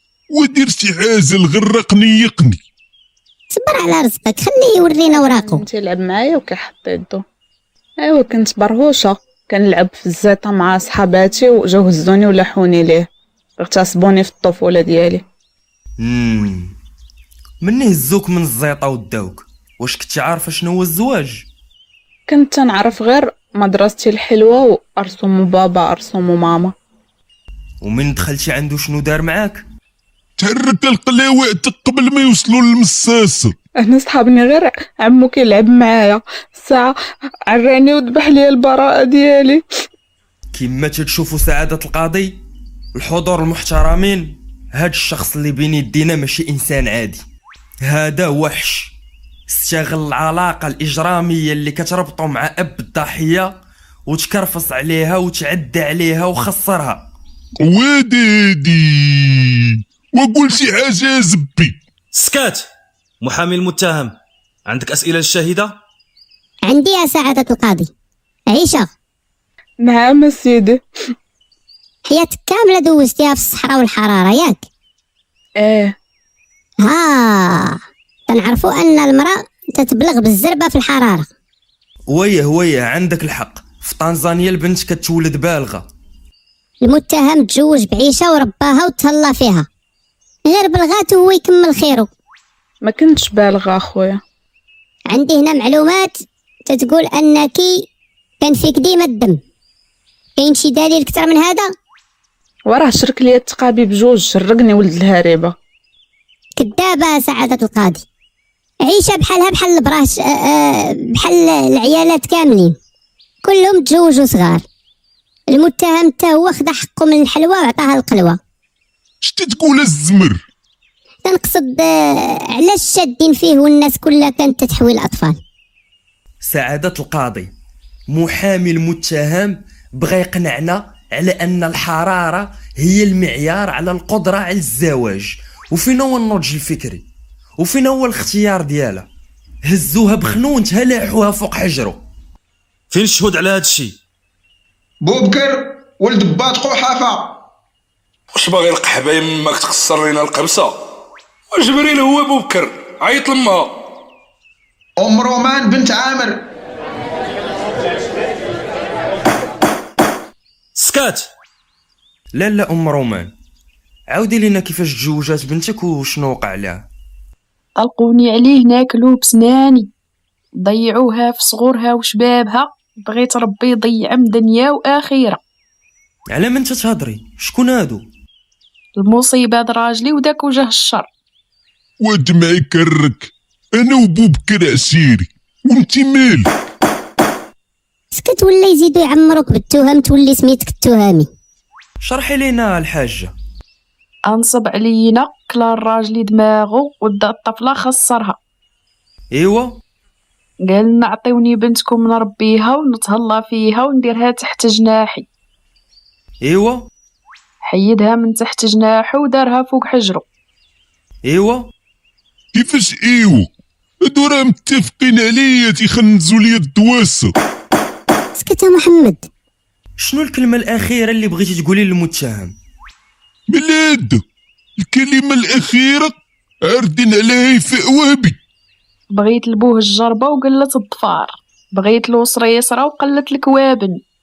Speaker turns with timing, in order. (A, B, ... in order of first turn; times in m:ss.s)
0:00.3-0:02.6 A
0:03.5-0:05.6 B
0:05.1-0:07.2 C
0:08.0-0:13.1 C
0:13.6-0:15.2 C
0:16.0-0:16.8 D
0:17.6-0:21.5 D
0:22.3-0:26.7 C
0:27.8-0:29.6 D
0:30.4-0:33.6 A
0:33.8-0:37.0 C
0:37.5-0:39.6 C
0:40.5-0:42.4 D
0:43.0-0:47.2 D
0:47.9-0:48.9 D
0:49.5-0:53.6 D
0:54.1-0:57.1 D
0:57.6-1:01.8 A
1:02.1-1:02.7 E
1:03.2-1:04.2 E
1:04.7-1:05.8 E
1:06.6-1:07.9 B
1:08.5-1:08.9 B
1:09.8-1:10.8 C
1:12.1-1:14.6 B
1:15.6-1:16.0 C
1:16.8-1:21.3 B
1:22.1-1:25.9 D
1:26.8-1:29.7 B
1:30.5-1:32.1 B
1:32.8-1:34.2 C
1:35.1-1:37.8 B
1:38.4-1:39.4 B
1:40.4-1:41.7 B
1:42.7-1:45.5 C
1:46.6-1:48.0 B
1:48.8-1:52.8 B
1:53.4-1:54.6 B
1:55.5-1:58.4 B
1:59.2-2:00.4 A
2:01.2-2:05.4 B
2:06.4-2:07.5 D
2:08.1-2:17.0 D
2:17.6-2:19.1 D
2:19.7-2:22.0 D
2:22.9-2:24.0 E
2:25.0-2:27.4 F
2:28.3-2:30.8 G
2:31.5-2:33.8 G
2:35.0-2:36.5 F
2:40.8-2:41.3 E
2:42.4-2:43.3 D
2:44.1-2:46.8 D
2:47.8-2:49.9 H
2:50.6-2:55.4 H
2:56.3-2:58.0 D
2:59.0-3:01.1 H
3:02.0-3:06.5 A
3:08.1-3:11.3 B
3:12.0-3:13.3 D
3:14.3-3:18.4 H
3:19.3-3:19.8 D
3:20.7-3:25.3 H
3:26.4-3:26.9 D
3:27.7-3:30.2 H
3:31.2-3:31.7 D
3:32.5-3:33.5 A
3:34.0-3:37.3 A
3:38.4-3:39.3 B
3:40.0-3:42.6 D
3:43.5-3:44.2 A
3:44.8-3:46.2 A
3:46.7-3:48.4 A
3:49.1-3:54.0 H